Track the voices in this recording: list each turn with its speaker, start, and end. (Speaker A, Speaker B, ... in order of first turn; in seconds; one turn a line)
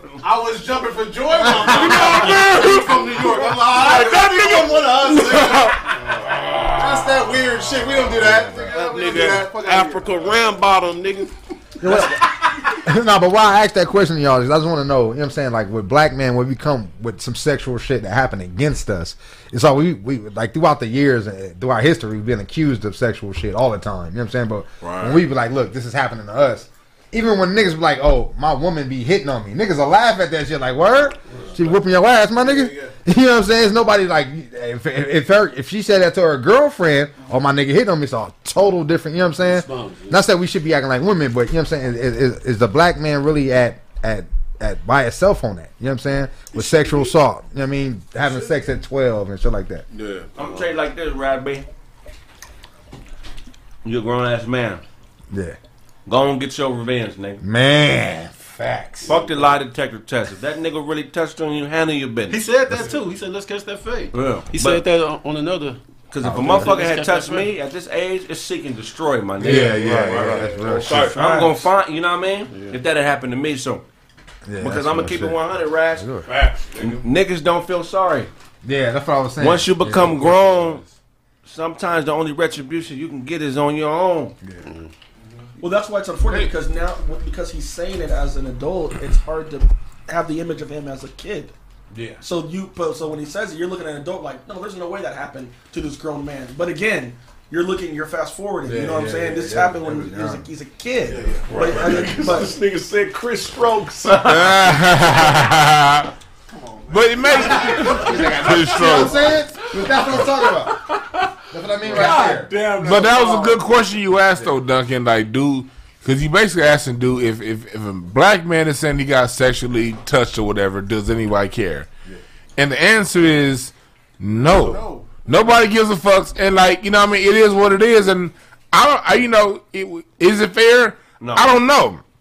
Speaker A: 0.2-6.0
Speaker B: 1.4-2.6
Speaker C: 1.8-3.0
Speaker C: 6.2-7.3
Speaker A: 6.6-10.3
Speaker B: 8.1-8.7
Speaker D: 8.7-12.1
Speaker B: 11.8-49.9
Speaker D: 24.8-25.2
Speaker A: 32.4-32.9
Speaker E: 39.4-40.2
Speaker A: 48.2-48.5
Speaker D: 49.9-50.6
Speaker F: 50.4-51.7
Speaker F: 53.9-54.8
Speaker B: 55.3-55.6
Speaker F: 56.1-57.4
Speaker B: 57.4-59.1
Speaker C: 58.6-58.9
Speaker F: 59.0-62.4
Speaker E: 62.3-67.5
Speaker F: 64.2-64.8
Speaker F: 66.1-69.9
Speaker B: 66.2-66.7
Speaker B: 69.4-71.2
Speaker E: 69.8-70.8
Speaker D: 69.8-71.4
Speaker G: 71.0-71.6
Speaker F: 71.0-73.8
Speaker E: 72.5-72.8
Speaker B: 74.5-75.4
Speaker F: 74.6-76.1
Speaker B: 76.0-76.3
Speaker D: 76.3-77.0
Speaker F: 76.8-78.3
Speaker B: 78.6-80.8
Speaker F: 79.4-80.8
Speaker F: 81.5-84.3
Speaker G: 85.6-91.5
Speaker G: 92.2-102.5
Speaker B: 98.7-100.5
Speaker D: 101.1-104.8
Speaker C: 104.2-106.1
Speaker A: 106.5-108.8
Speaker C: 106.9-109.2
Speaker D: 107.5-108.1
Speaker B: 107.7-110.9
Speaker D: 109.7-111.2
Speaker B: 111.5-112.6
Speaker D: 111.8-113.7
Speaker F: 112.0-112.3
Speaker C: 112.7-121.9
Speaker C: 122.6-132.0
Speaker A: 124.4-125.5
Speaker F: 131.2-131.6